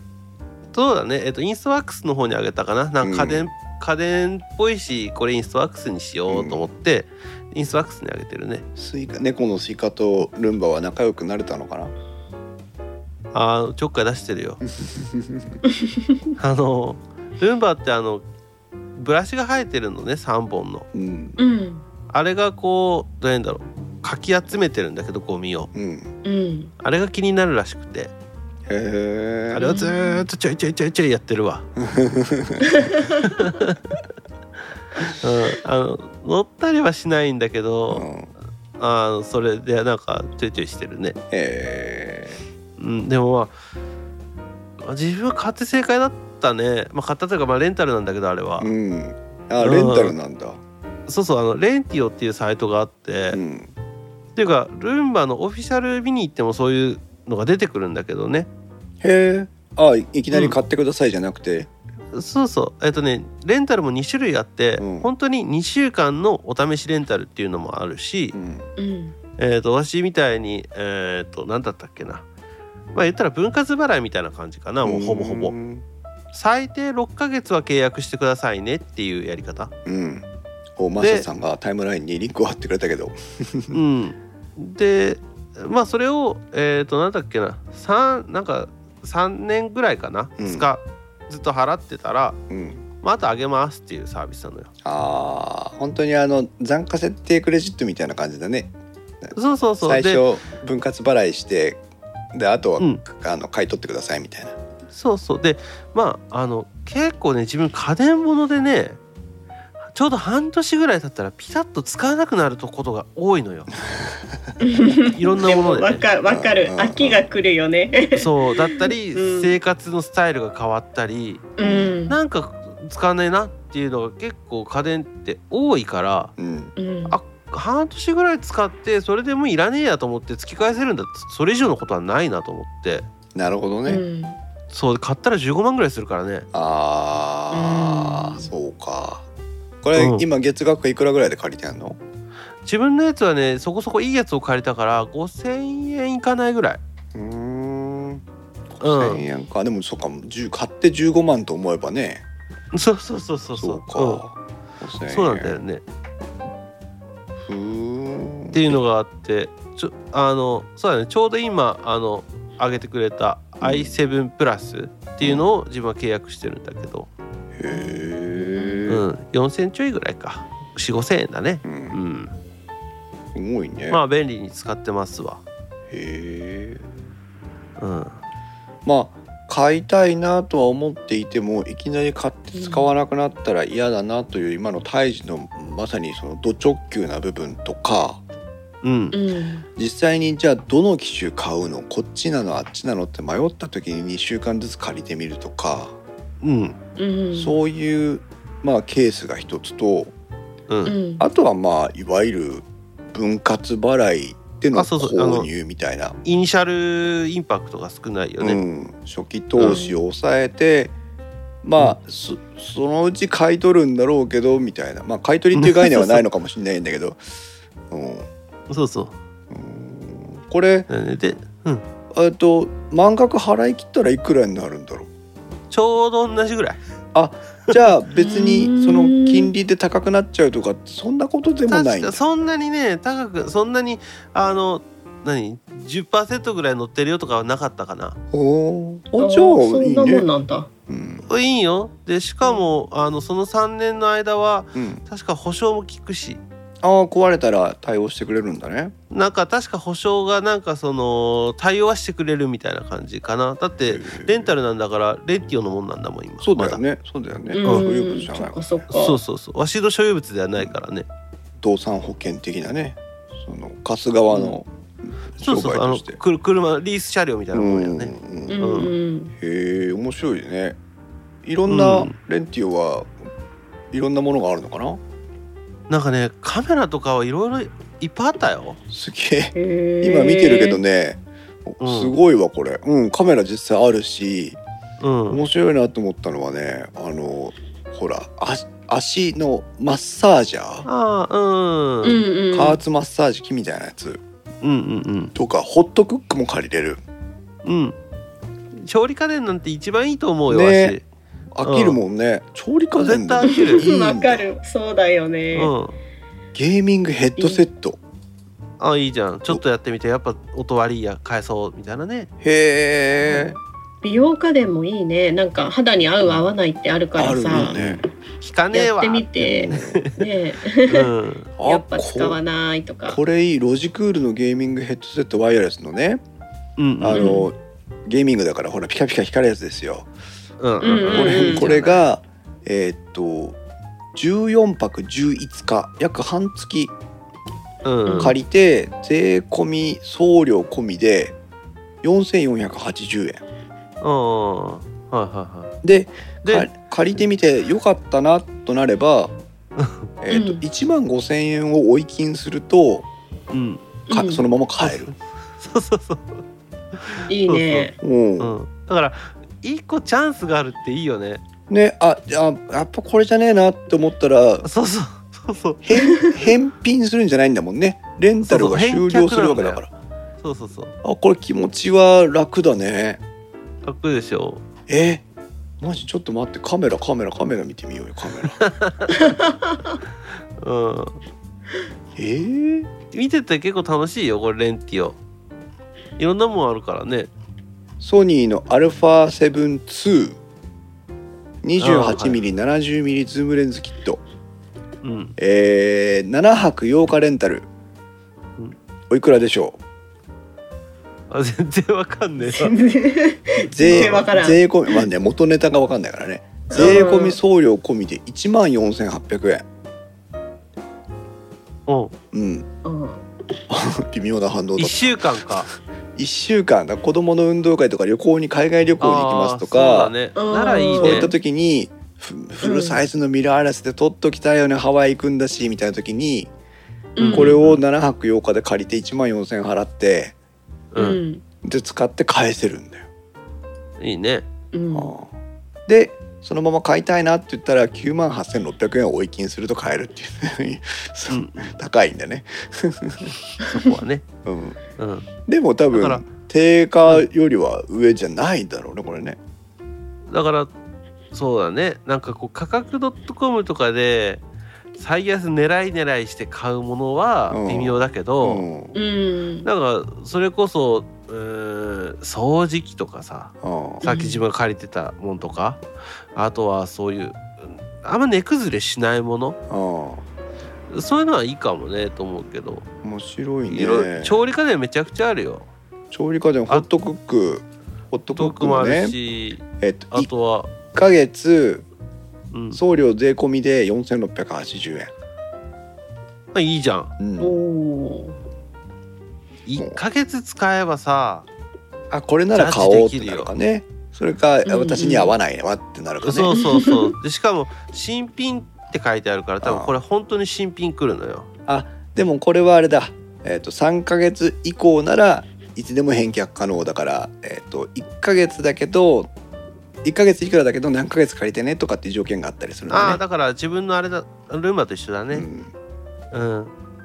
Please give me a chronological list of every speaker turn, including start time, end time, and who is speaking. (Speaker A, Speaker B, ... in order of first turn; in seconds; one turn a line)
Speaker A: 0.7-8.6
Speaker B: 3.0-3.5
Speaker B: 6.3-6.7
Speaker B: 8.8-11.9
Speaker A: 13.3-14.6
Speaker B: 14.7-15.6
Speaker A: 16.4-18.2
Speaker A: 18.9-20.9
Speaker B: 20.9-21.4
Speaker C: 21.4-21.8
Speaker A: 22.1-25.7
Speaker B: 25.7-26.1
Speaker C: 26.2-26.7
Speaker A: 26.8-28.1
Speaker B: 28.7-29.6
Speaker A: 29.5-31.6
Speaker C: 29.6-30.2
Speaker B: 31.8-32.8
Speaker C: 32.7-33.2
Speaker A: 33.2-34.0
Speaker A: 35.1-38.1
Speaker B: 37.9-38.3
Speaker A: 38.8-41.2
Speaker B: 41.3-42.4
Speaker A: 42.8-43.5
Speaker A: 44.8-48.7
Speaker B: 48.6-50.6
Speaker A: 49.6-50.1
Speaker A: 51.1-53.4
Speaker B: 53.3-53.7
Speaker A: 54.4-58.5
Speaker B: 59.0-61.7
Speaker A: 62.1-68.3
Speaker B: 64.8-65.1
Speaker B: 68.3-68.7
Speaker C: 68.8-69.1
Speaker A: 69.4-72.2
Speaker A: 72.9-75.5
Speaker B: 74.8-75.8
Speaker A: 76.3-79.7
Speaker B: 79.8-80.2
Speaker B: 80.8-83.8
Speaker A: 81.0-81.2
Speaker A: 83.7-92.4
Speaker B: 90.4-90.7
Speaker B: 92.5-92.8
Speaker A: 93.0-94.7
Speaker B: 94.8-101.8
Speaker A: 99.3-100.2
Speaker B: 102.3-104.6
Speaker A: 104.9-109.0
Speaker A: 109.9-113.9
Speaker C: 114.6-119.5
Speaker A: 115.0-116.0
Speaker B: 116.2-117.2
Speaker A: 118.1-126.3
Speaker C: 121.6-122.2
Speaker B: 121.6-121.9
Speaker B: 126.4-126.7
Speaker C: 126.8-127.2
Speaker A: 127.1-133.1
Speaker B: 133.3-134.0
Speaker C: 133.9-134.4
Speaker A: 134.7-136.5
Speaker B: 136.5-139.2
Speaker C: 137.5-138.5
Speaker B: 139.8-142.0
Speaker A: 139.9-140.2
Speaker A: 142.6-146.8
Speaker B: 147.1-152.2
Speaker A: 148.8-149.2
Speaker A: 152.7-154.2
Speaker B: 153.5-155.6
Speaker A: 155.1-155.8
Speaker B: 157.5-158.8
Speaker A: 158.5-167.1
Speaker B: 163.6-163.9
Speaker B: 165.2-165.4
Speaker B: 167.6-169.0
Speaker C: 167.7-168.9
Speaker A: 168.9-172.3
Speaker B: 171.6-172.0
Speaker B: 173.3-174.0
Speaker A: 173.9-175.4
Speaker B: 175.9-176.9
Speaker A: 177.8-178.2
Speaker B: 178.8-188.2
Speaker C: 182.5-182.9
Speaker A: 188.8-189.2
Speaker C: 189.1-189.7
Speaker B: 189.8-196.0
Speaker A: 196.4-196.8
Speaker C: 197.0-197.6
Speaker B: 197.3-200.1
Speaker A: 200.7-200.9
Speaker C: 200.8-201.2
Speaker B: 201.2-206.2
Speaker A: 204.7-205.5
Speaker A: 206.2-208.6
Speaker B: 208.4-210.9
Speaker C: 209.6-209.9
Speaker B: 211.6-217.2
Speaker A: 215.5-216.2
Speaker B: 217.9-218.3
Speaker A: 218.7-219.1
Speaker B: 219.5-220.9
Speaker A: 220.9-221.8
Speaker B: 222.1-225.1
Speaker A: 225.7-226.8
Speaker B: 227.1-232.2
Speaker C: 228.1-229.5
Speaker A: 231.7-238.2
Speaker B: 238.3-240.3
Speaker C: 239.2-240.7
Speaker B: 240.9-241.3
Speaker A: 241.3-246.4
Speaker B: 244.7-245.0
Speaker B: 246.8-248.9
Speaker A: 249.1-256.8
Speaker B: 253.9-254.5
Speaker B: 256.4-258.6
Speaker C: 257.5-259.2
Speaker A: 258.9-261.0
Speaker B: 261.6-264.7
Speaker B: 265.3-266.2
Speaker A: 265.4-268.9
Speaker B: 267.5-268.6
Speaker C: 268.5-269.3
Speaker B: 269.4-270.8
Speaker B: 271.4-273.1
Speaker A: 271.7-272.1
Speaker B: 273.9-275.0
Speaker A: 275.9-278.8
Speaker B: 278.9-284.6
Speaker C: 279.5-280.8
Speaker A: 281.8-282.1
Speaker A: 285.0-285.4
Speaker B: 285.3-290.9
Speaker A: 290.9-292.2
Speaker C: 292.0-292.8
Speaker B: 292.5-294.2
Speaker A: 294.6-295.3
Speaker B: 295.3-297.0
Speaker A: 297.6-297.9
Speaker A: 298.7-301.0
Speaker B: 300.5-301.0
Speaker B: 301.5-304.4
Speaker A: 301.6-302.0
Speaker A: 303.0-303.9
Speaker C: 303.4-305.7
Speaker A: 305.5-306.0
Speaker B: 306.5-308.0
Speaker C: 307.4-307.6
Speaker A: 308.8-312.3
Speaker B: 312.4-313.6
Speaker C: 314.0-318.0
Speaker B: 317.1-318.0
Speaker A: 317.5-320.3
Speaker C: 318.7-321.1
Speaker B: 319.6-320.0
Speaker A: 320.9-321.5
Speaker B: 321.6-322.4
Speaker C: 321.6-323.2
Speaker B: 323.1-326.2
Speaker A: 326.8-327.4
Speaker B: 327.0-330.1
Speaker C: 327.1-327.5
Speaker A: 330.6-332.0
Speaker C: 330.8-331.7
Speaker B: 331.1-333.6
Speaker B: 334.1-336.9
Speaker A: 337.8-338.3
Speaker C: 338.1-338.3
Speaker B: 338.2-341.3
Speaker B: 342.0-343.4
Speaker A: 344.0-345.7
Speaker B: 345.8-349.3
Speaker A: 346.4-346.7
Speaker A: 349.8-350.1
Speaker B: 350.2-353.1
Speaker C: 350.3-350.6
Speaker A: 353.5-353.8
Speaker C: 354.1-354.4
Speaker B: 354.1-355.1
Speaker A: 354.8-356.4
Speaker A: 357.0-361.4
Speaker C: 357.3-357.9
Speaker B: 358.0-358.6
Speaker B: 361.7-364.7
Speaker A: 364.6-365.8
Speaker B: 365.8-369.9
Speaker C: 366.0-366.3
Speaker A: 368.4-369.8
Speaker A: 370.4-370.9
Speaker B: 371.0-373.2
Speaker A: 373.8-374.6
Speaker B: 374.9-375.2
Speaker B: 375.8-378.6
Speaker A: 378.4-379.2
Speaker C: 379.1-379.8
Speaker A: 380.6-381.2
Speaker B: 382.1-382.9
Speaker A: 383.1-385.2
Speaker A: 386.2-387.3
Speaker B: 388.0-390.4
Speaker B: 391.6-394.2
Speaker A: 391.8-392.4
Speaker A: 395.0-395.3
Speaker B: 395.4-397.7
Speaker B: 399.1-399.8
Speaker A: 401.3-402.7
Speaker C: 402.4-405.0
Speaker B: 403.7-409.6
Speaker A: 403.8-404.3
Speaker C: 406.7-407.4
Speaker A: 411.9-412.1
Speaker B: 412.3-412.7
Speaker C: 412.8-413.2
Speaker B: 413.7-415.5
Speaker A: 414.8-415.7
Speaker B: 416.1-420.1
Speaker A: 419.0-421.3
Speaker C: 420.4-421.3
Speaker B: 421.0-426.5
Speaker C: 422.6-423.0
Speaker C: 427.1-427.5
Speaker A: 427.2-427.8
Speaker B: 427.3-430.3
Speaker A: 430.9-431.2
Speaker C: 431.0-431.4
Speaker B: 431.6-433.1
Speaker A: 434.0-434.5
Speaker C: 434.7-435.1
Speaker B: 434.9-435.3
Speaker B: 435.9-443.3
Speaker A: 441.3-441.7
Speaker A: 443.5-444.2
Speaker B: 444.4-444.8
Speaker A: 445.0-445.3
Speaker B: 445.4-449.4
Speaker A: 445.9-446.2
Speaker A: 450.3-450.7
Speaker A: 451.3-454.4
Speaker A: 454.9-458.6
Speaker B: 457.5-458.9
Speaker C: 458.9-459.7
Speaker A: 459.6-469.6
Speaker B: 463.6-464.1
Speaker C: 464.0-464.4
Speaker B: 469.7-470.2
Speaker A: 470.9-472.9
Speaker B: 473.0-474.4
Speaker A: 473.7-475.7
Speaker B: 476.1-479.1
Speaker A: 478.3-480.7
Speaker B: 479.8-480.3
Speaker B: 480.9-481.9
Speaker A: 482.5-482.8
Speaker B: 482.7-485.1
Speaker A: 486.5-487.1
Speaker B: 487.2-487.6
Speaker C: 487.4-488.4
Speaker A: 489.6-491.5
Speaker B: 489.8-490.0
Speaker B: 492.1-496.6
Speaker A: 492.5-493.5
Speaker C: 494.6-495.3
Speaker A: 496.2-501.5
Speaker C: 496.5-497.1
Speaker B: 499.6-499.9
Speaker B: 501.7-509.3
Speaker B: 510.0-513.2
Speaker A: 512.9-515.5
Speaker B: 515.3-515.7
Speaker A: 516.3-516.7